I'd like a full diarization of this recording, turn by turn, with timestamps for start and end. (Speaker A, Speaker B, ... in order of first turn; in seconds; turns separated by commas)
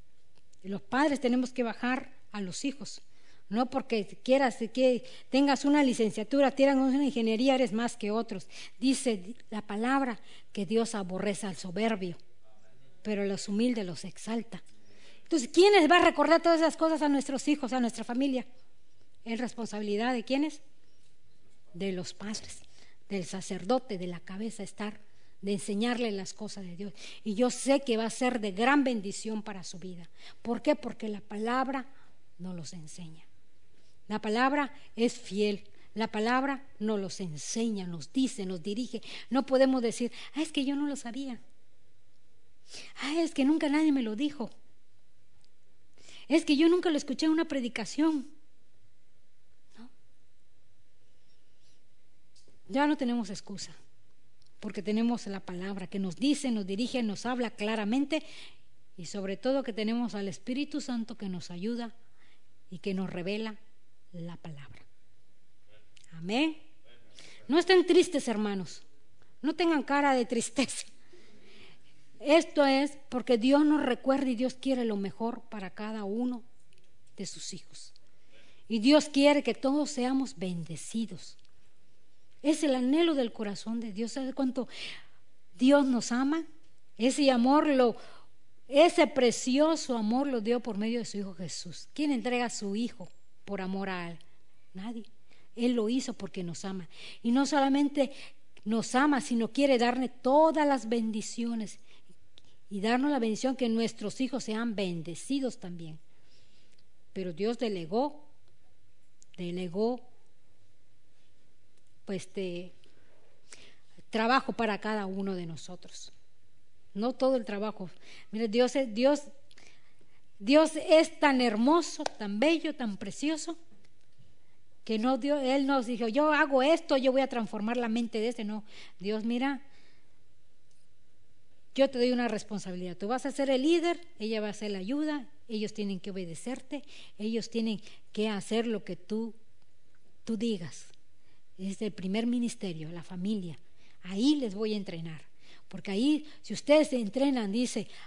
Speaker A: 0.6-12.2, Speaker A: 13.0-14.6, Speaker A: 15.3-18.5, Speaker A: 19.2-20.6, Speaker A: 21.7-33.3, Speaker A: 34.1-41.4, Speaker A: 43.0-44.5, Speaker A: 46.3-48.3, Speaker A: 52.7-53.8, Speaker A: 54.6-58.2, Speaker A: 59.0-62.0, Speaker A: 62.7-63.6, Speaker A: 64.1-64.9, Speaker A: 66.1-66.6, Speaker A: 67.5-68.8, Speaker A: 69.4-70.9, Speaker A: 72.2-76.5, Speaker A: 77.2-78.0, Speaker A: 78.7-81.4, Speaker A: 82.4-84.7, Speaker A: 85.5-86.5, Speaker A: 87.0-88.0, Speaker A: 88.7-94.2, Speaker A: 94.7-101.8, Speaker A: 102.7-106.0, Speaker A: 107.1-108.3, Speaker A: 109.4-110.1, Speaker A: 112.1-112.7, Speaker A: 114.1-116.1, Speaker A: 116.9-119.3, Speaker A: 120.4-123.6, Speaker A: 124.8-129.6, Speaker A: 131.7-139.4, Speaker A: 140.2-140.9, Speaker A: 141.6-147.9